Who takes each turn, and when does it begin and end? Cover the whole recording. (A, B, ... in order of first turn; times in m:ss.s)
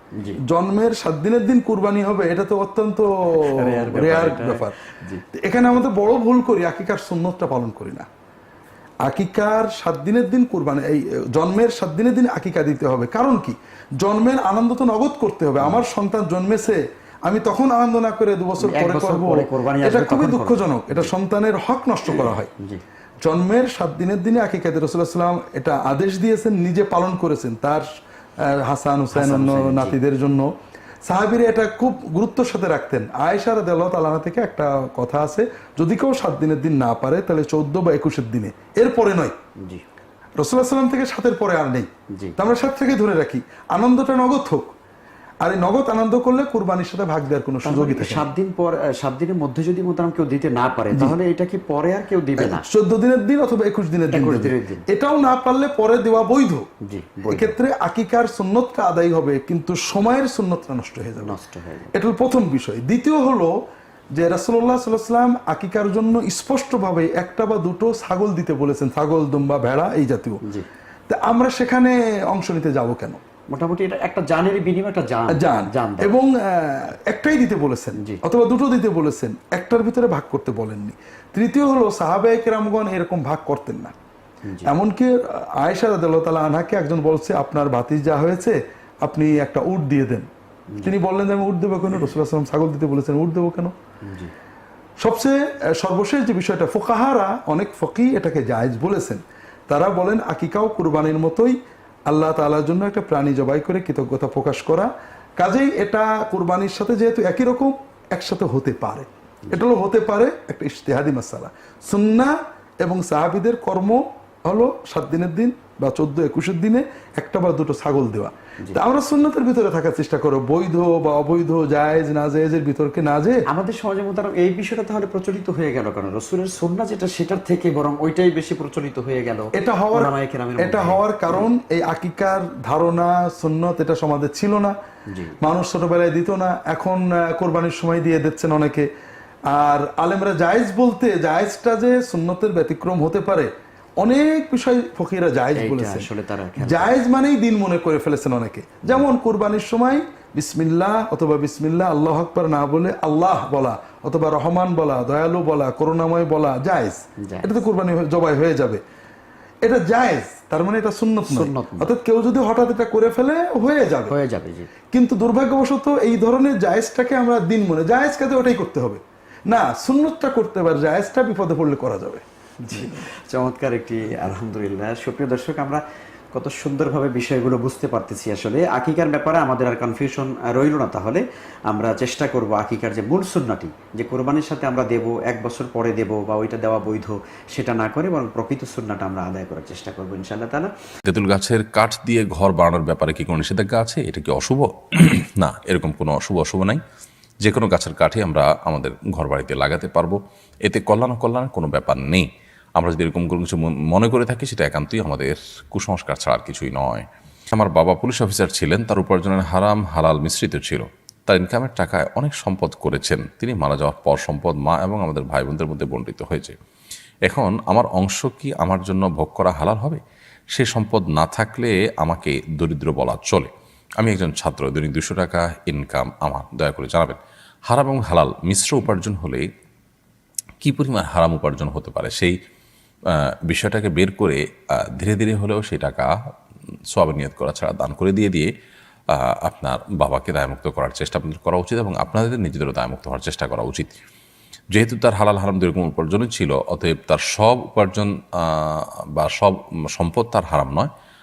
0:00.5-0:04.7 A
0:03.3-0:05.2 B
0:05.4-0:08.1 A
0:09.0-0:22.5 A
0:18.6-0:21.1 B
0:22.0-0:22.8 B
0:23.2-0:27.8 A
0:28.5-0:30.5 A
0:29.1-0:30.0 B
0:31.0-0:39.3 A
0:40.4-0:44.7 A
0:45.4-0:48.3 A
0:47.6-0:52.7 B
0:52.4-0:56.6 A
0:54.1-0:54.8 B
0:56.9-0:57.6 B
0:57.3-1:01.4 A
1:01.2-1:01.9 B
1:01.9-1:03.5 A
1:04.1-1:10.4 A
1:11.1-1:13.2 A
1:13.5-1:16.1 B
1:15.3-1:23.9 A
1:24.4-1:24.7 B
1:24.7-1:30.3 A
1:30.8-1:33.7 A
1:34.0-1:34.3 B
1:35.0-1:41.6 A
1:42.1-2:03.4 A
2:03.5-2:11.5 B
2:09.6-2:14.8 A
2:15.1-2:15.4 B
2:15.4-2:18.9 A
2:19.5-2:26.1 A
2:25.6-2:27.0 B
2:26.6-2:38.8 A
2:37.2-2:37.5 B
2:39.6-2:44.1 A
2:41.2-2:41.9 B
2:44.1-2:44.7 B
2:44.9-2:53.0 A
2:52.6-2:55.8 B
2:56.3-3:10.7 B
3:11.1-3:16.8 C
3:17.4-3:22.2 C
3:22.8-3:36.6 C
3:37.3-3:40.0 C
3:40.6-3:47.2 C
3:47.7-3:49.4 C
3:50.6-3:52.4 C
3:53.1-3:54.4 C
3:54.9-3:56.1 C
3:56.9-3:58.5 C
3:59.1-4:03.9 C
4:04.7-4:10.9 C